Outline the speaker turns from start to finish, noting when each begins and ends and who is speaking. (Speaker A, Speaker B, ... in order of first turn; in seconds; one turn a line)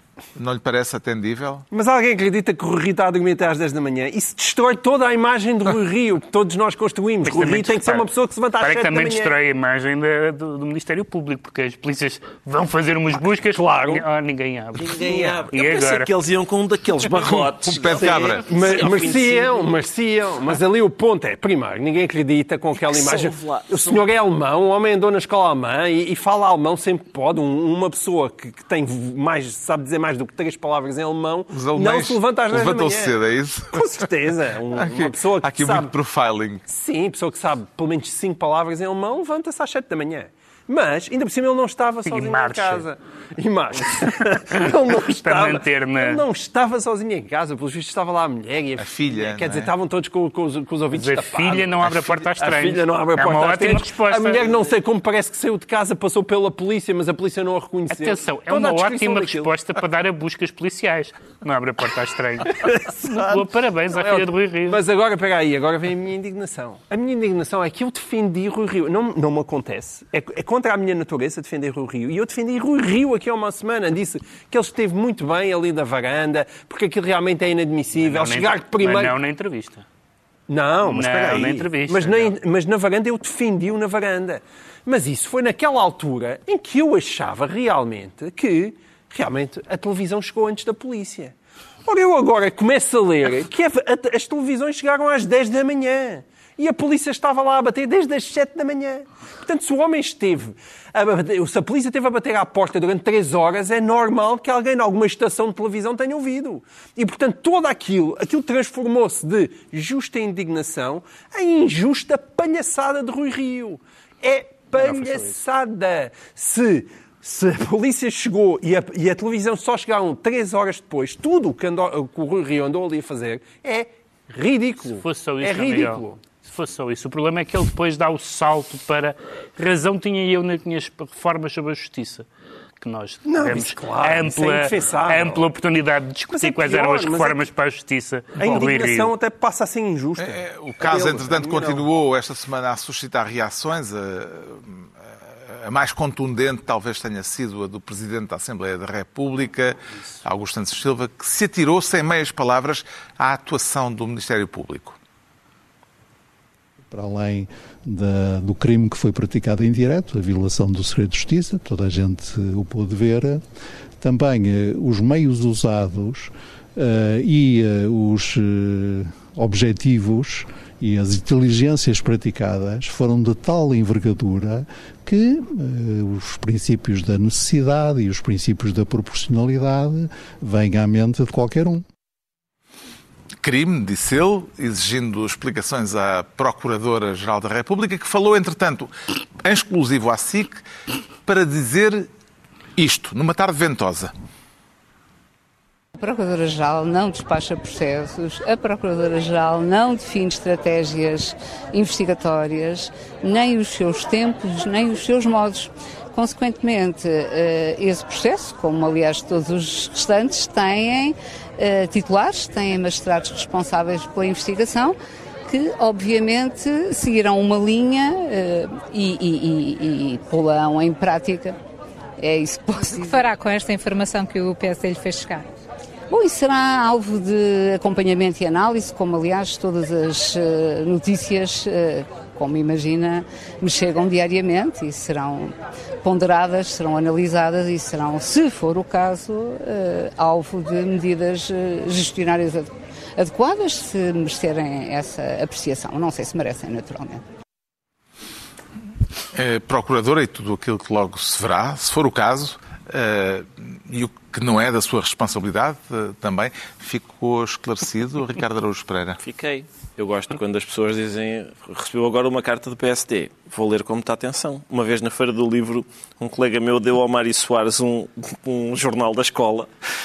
Speaker A: 0.3-1.7
Speaker B: 1.7-9.3
Speaker C: 7.2-14.9
Speaker B: 13.5-14.0
Speaker D: 14.8-19.7
Speaker B: 15.0-15.5
Speaker C: 15.5-16.1
Speaker A: 17.3-18.4
Speaker B: 18.0-33.1
Speaker D: 22.8-24.0
Speaker A: 31.5-33.9
Speaker B: 33.7-35.9
Speaker A: 34.7-36.6
Speaker B: 36.7-59.5
Speaker C: 42.0-42.9
Speaker C: 45.2-46.2
Speaker A: 48.8-49.7
Speaker C: 50.9-54.6
Speaker C: 57.9-64.8
Speaker B: 62.6-79.2
Speaker C: 78.0-79.8
Speaker B: 80.5-91.3
Speaker C: 80.8-82.3
Speaker B: 91.9-126.2
Speaker C: 114.8-115.4
Speaker C: 125.0-132.3
Speaker C: 132.8-139.1
Speaker B: 133.3-135.4
Speaker B: 136.3-137.5
Speaker B: 138.4-141.8
Speaker A: 140.2-155.0
Speaker E: 156.9-163.4
Speaker E: 164.0-181.8
Speaker A: 183.4-190.7
Speaker A: 191.2-192.1
Speaker A: 192.8-194.1
Speaker F: 196.0-215.0
Speaker F: 215.5-221.6
Speaker F: 222.2-223.3
Speaker G: 222.9-225.4
Speaker F: 226.1-235.5
Speaker F: 236.0-247.2
Speaker A: 249.3-259.2
Speaker D: 259.2-269.7